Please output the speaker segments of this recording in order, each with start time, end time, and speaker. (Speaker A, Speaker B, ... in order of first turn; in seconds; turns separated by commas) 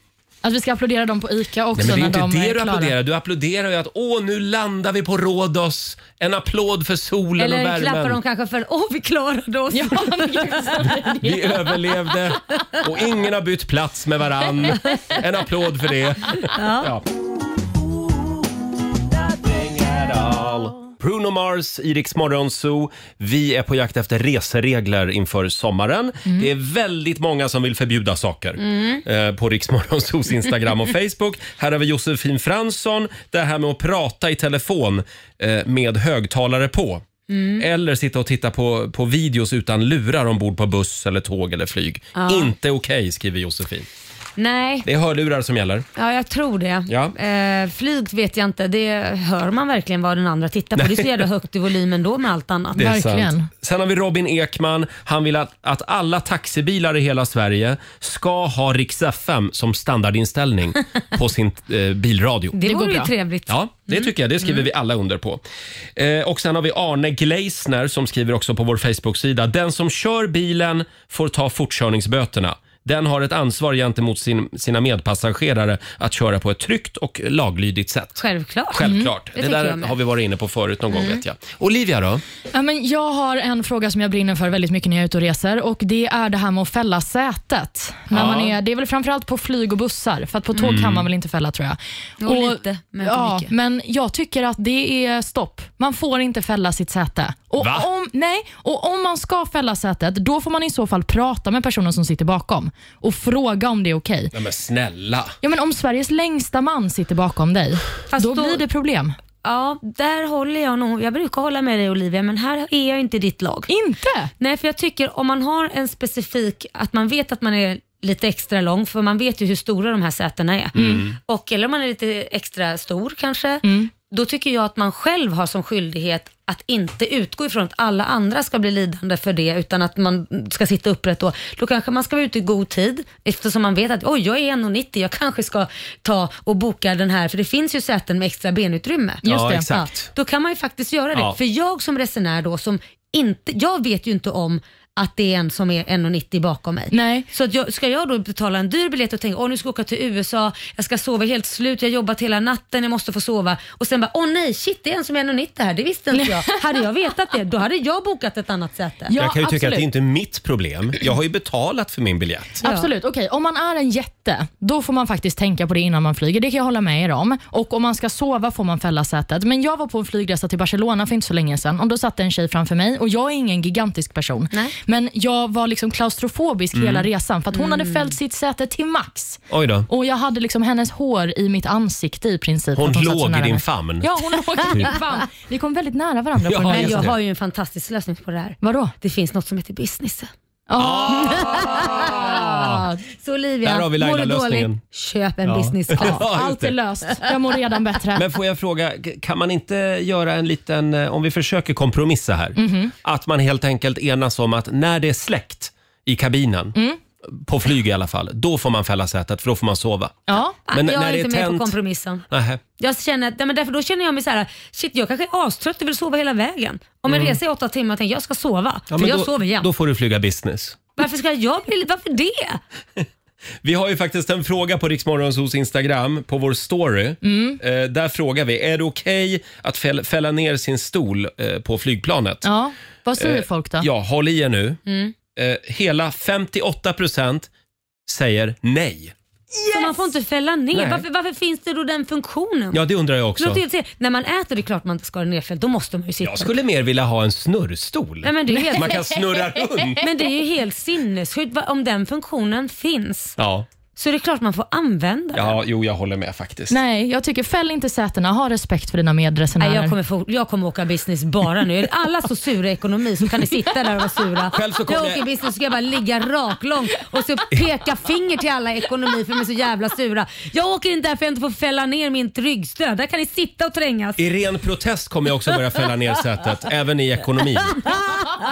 Speaker A: 0.4-2.9, Speaker B: 1.7-8.2, Speaker C: 7.4-10.8, Speaker A: 9.7-11.5, Speaker B: 11.2-17.0, Speaker C: 14.6-15.2, Speaker C: 16.5-16.9, Speaker B: 19.3-37.0, Speaker C: 28.6-29.0, Speaker C: 37.3-37.6, Speaker B: 37.6-43.9, Speaker C: 42.1-42.5, Speaker C: 44.4-44.9, Speaker B: 44.8-45.9, Speaker C: 46.0-52.8, Speaker B: 46.9-47.1, Speaker B: 50.8-51.2, Speaker B: 52.7-62.5, Speaker A: 52.8-53.5, Speaker C: 62.5-64.6, Speaker A: 62.6-63.1, Speaker B: 63.5-65.4, Speaker B: 66.0-82.2, Speaker C: 78.2-80.0, Speaker A: 78.8-79.1, Speaker C: 80.9-81.2, Speaker A: 82.5-104.3, Speaker B: 88.1-88.5, Speaker B: 90.6-91.0, Speaker C: 92.2-93.5, Speaker B: 97.5-97.9, Speaker B: 104.3-105.3, Speaker A: 105.4-109.2, Speaker C: 108.1-108.6, Speaker C: 109.4-113.7, Speaker A: 113.7-114.3, Speaker C: 114.4-159.1, Speaker B: 120.7-121.2, Speaker A: 123.6-123.9, Speaker A: 139.2-139.7, Speaker B: 139.2-140.1, Speaker A: 146.9-147.2, Speaker A: 156.2-156.6, Speaker A: 159.1-159.9, Speaker B: 159.1-162.6, Speaker C: 162.6-162.9, Speaker A: 162.6-187.1, Speaker B: 176.7-177.1, Speaker C: 177.5-178.1, Speaker B: 179.5-179.9, Speaker B: 182.8-184.9, Speaker B: 186.4-187.1, Speaker C: 186.7-190.3, Speaker A: 188.6-188.9, Speaker A: 190.7-191.6, Speaker B: 190.8-192.8, Speaker C: 191.1-196.2, Speaker A: 192.5-192.9, Speaker B: 193.6-194.8, Speaker B: 195.4-196.7, Speaker A: 196.0-198.2, Speaker B: 198.1-211.7, Speaker A: 202.6-202.9, Speaker A: 210.3-210.6, Speaker C: 210.6-212.2, Speaker B: 212.3-212.6, Speaker C: 212.8-219.7, Speaker B: 217.1-217.4, Speaker B: 218.9-220.8, Speaker C: 221.0-222.6, Speaker B: 223.6-232.4, Speaker A: 227.2-227.6, Speaker A: 232.4-233.9, Speaker B: 233.2-234.8, Speaker C: 234.9-235.1, Speaker B: 235.3-237.5, Speaker B: 238.1-239.1, Speaker B: 239.7-240.0, Speaker C: 239.7-242.8, Speaker B: 240.7-241.0, Speaker B: 242.7-243.6, Speaker C: 243.4-246.5, Speaker B: 246.2-250.0, Speaker C: 248.2-249.1, Speaker C: 250.0-253.3, Speaker B: 253.4-253.7, Speaker C: 253.9-255.6, Speaker B: 255.3-256.8, Speaker A: 256.7-259.9, Speaker C: 259.6-274.2, Speaker B: 264.5-265.2, Speaker B: 274.2-277.9, Speaker C: 277.9-278.3